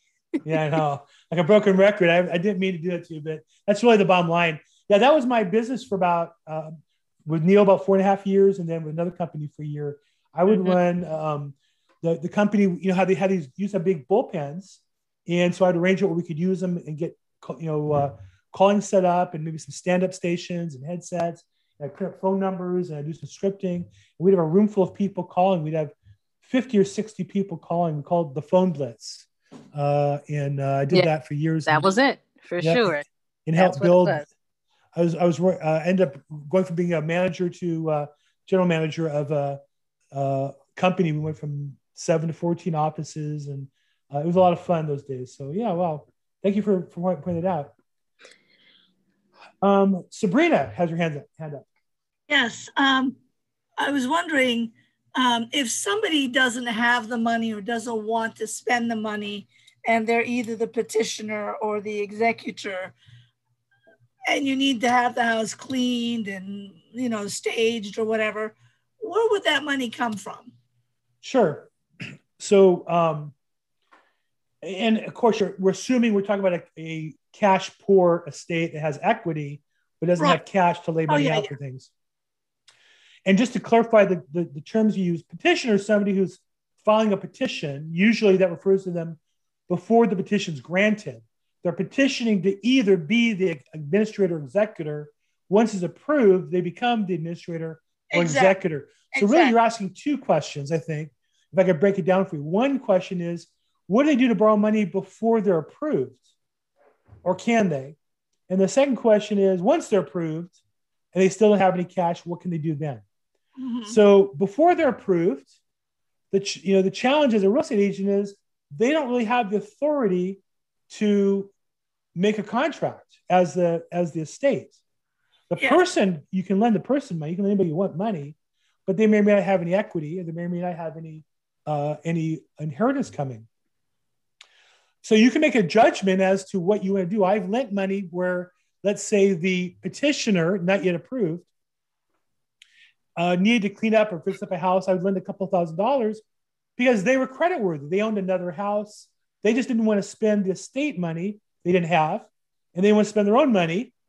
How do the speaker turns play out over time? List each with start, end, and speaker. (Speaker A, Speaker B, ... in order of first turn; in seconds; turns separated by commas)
Speaker A: 0.5-31.9, Speaker B: 31.6-33.0, Speaker A: 32.6-32.9, Speaker A: 33.5-34.2, Speaker B: 33.6-34.2, Speaker A: 35.0-39.6, Speaker A: 40.1-47.7, Speaker A: 49.6-51.6, Speaker C: 52.3-53.2, Speaker C: 53.8-62.9, Speaker C: 64.3-70.5, Speaker A: 71.2-71.7, Speaker A: 72.4-73.3, Speaker A: 74.6-81.9, Speaker C: 81.1-81.5, Speaker A: 83.3-106.2, Speaker C: 98.1-98.6, Speaker C: 99.1-99.5, Speaker A: 107.2-108.0, Speaker A: 108.5-110.6, Speaker A: 111.1-113.0, Speaker C: 113.6-114.0, Speaker A: 113.8-115.5, Speaker A: 116.3-121.5, Speaker A: 122.1-124.8, Speaker A: 125.5-128.3, Speaker A: 128.9-133.5, Speaker A: 135.0-141.5, Speaker A: 143.2-146.2, Speaker A: 146.8-153.9